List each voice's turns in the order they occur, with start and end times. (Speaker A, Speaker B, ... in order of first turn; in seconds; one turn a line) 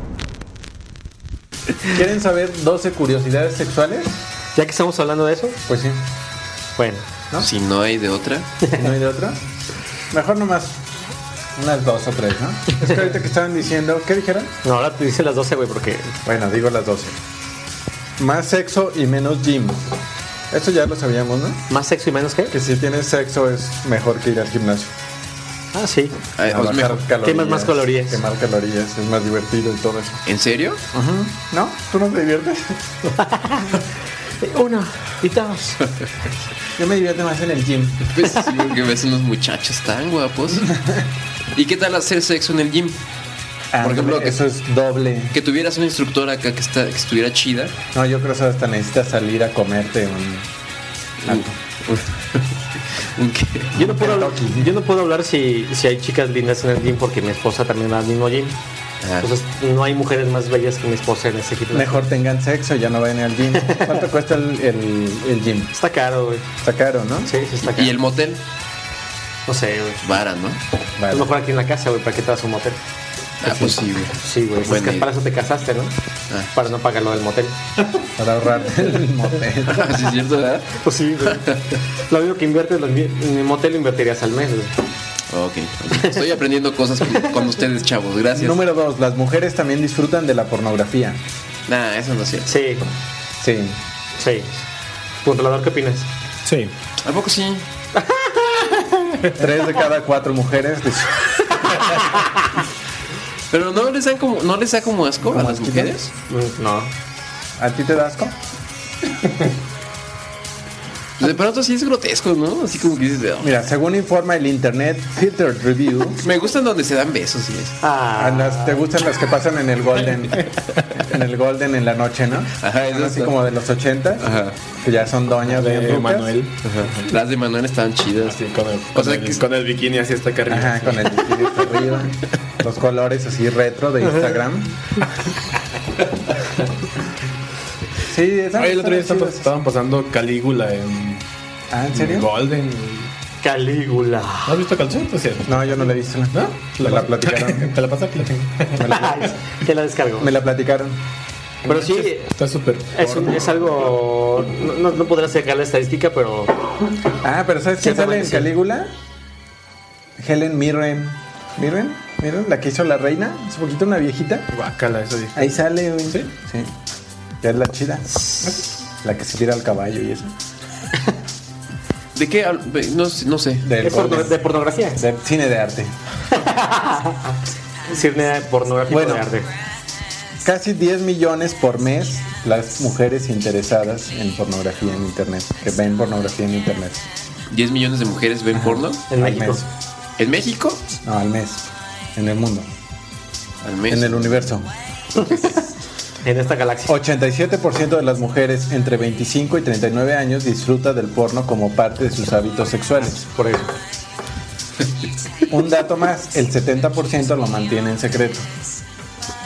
Speaker A: 1.9-4.1
Speaker B: 4.5-5.6
Speaker A: 5.7-6.0
Speaker B: 6.8-7.0
Speaker C: 7.4-8.5
Speaker A: 8.7-9.4
Speaker A: 10.1-10.7
Speaker A: 11.6-14.5
Speaker B: 14.6-16.1
Speaker A: 16.2-17.1
Speaker A: 18.2-19.8
Speaker A: 20.5-21.6
Speaker B: 21.7-22.5
Speaker A: 22.5-24.9
Speaker B: 25.7-26.2
Speaker C: 26.4-27.0
Speaker A: 26.5-30.2
Speaker B: 27.2-28.2
Speaker C: 30.2-30.8
Speaker A: 30.9-32.8
Speaker B: 33.1-33.9
Speaker B: 34.4-35.9
Speaker A: 36.8-38.2
Speaker C: 38.1-40.7
Speaker A: 40.6-41.1
Speaker C: 41.5-43.0
Speaker A: 43.7-45.4
Speaker C: 43.8-44.4
Speaker C: 45.3-47.7
Speaker A: 47.9-50.5
Speaker C: 51.2-53.8
Speaker A: 51.2-51.5
Speaker B: 53.7-58.6
Speaker A: 53.8-54.7
Speaker C: 59.0-59.3
Speaker B: 59.2-62.0
Speaker A: 61.7-65.7
Speaker B: 63.5-64.0
Speaker B: 65.7-66.5
Speaker A: 66.6-67.3
Speaker B: 67.2-67.9
Speaker C: 67.6-68.4
Speaker B: 69.5-70.0
Speaker C: 70.0-70.6
Speaker A: 71.0-71.3
Speaker B: 71.1-72.8
Speaker C: 73.4-75.1
Speaker A: 73.4-73.8
Speaker B: 74.2-75.9
Speaker B: 76.5-77.6
Speaker A: 78.2-79.9
Speaker C: 79.7-81.8
Speaker B: 80.8-84.7
Speaker C: 85.3-88.6
Speaker A: 88.3-91.2
Speaker C: 91.7-92.5
Speaker B: 92.5-92.9
Speaker A: 93.4-93.8
Speaker B: 94.2-94.6
Speaker B: 95.2-96.1
Speaker D: 96.5-96.7
Speaker C: 97.0-97.7
Speaker B: 98.0-99.1
Speaker A: 99.3-102.0
Speaker B: 101.8-102.2
Speaker C: 103.5-106.1
Speaker A: 105.2-106.0
Speaker B: 106.3-106.9
Speaker A: 107.6-108.3
Speaker C: 111.2-113.5
Speaker A: 113.4-116.2
Speaker C: 116.2-117.7
Speaker B: 117.8-118.8
Speaker A: 118.2-126.4
Speaker C: 122.6-123.4
Speaker C: 124.2-124.6
Speaker D: 125.4-126.7
Speaker C: 126.9-128.4
Speaker D: 128.2-131.4
Speaker C: 128.9-129.4
Speaker A: 130.5-134.8
Speaker A: 138.1-139.5
Speaker D: 138.5-141.2
Speaker A: 141.7-142.3
Speaker D: 141.9-143.1
Speaker B: 143.4-144.6
Speaker D: 144.4-145.5
Speaker A: 145.4-147.8
Speaker D: 146.3-148.9
Speaker A: 148.7-149.3
Speaker B: 148.8-150.3
Speaker A: 150.2-151.0
Speaker B: 151.6-152.3
Speaker D: 151.7-153.5
Speaker B: 152.9-156.6
Speaker A: 157.2-158.9
Speaker B: 157.8-158.5
Speaker A: 160.2-164.5
Speaker D: 164.5-165.6
Speaker A: 165.3-166.7
Speaker A: 167.4-168.2
Speaker A: 169.0-170.3
Speaker C: 172.1-173.7
Speaker A: 173.6-174.4
Speaker B: 173.8-175.0
Speaker A: 175.0-175.9
Speaker B: 176.3-177.3
Speaker B: 177.9-179.5
Speaker A: 178.9-179.3
Speaker A: 180.4-187.0
Speaker C: 187.5-189.0
Speaker A: 188.5-189.6
Speaker B: 189.1-189.6
Speaker C: 190.2-190.8
Speaker A: 191.0-191.6
Speaker A: 192.2-192.7
Speaker C: 193.6-194.4
Speaker A: 193.9-194.7
Speaker B: 195.2-195.6
Speaker B: 196.2-196.9
Speaker A: 196.9-203.3
Speaker B: 203.3-203.7
Speaker A: 205.5-208.4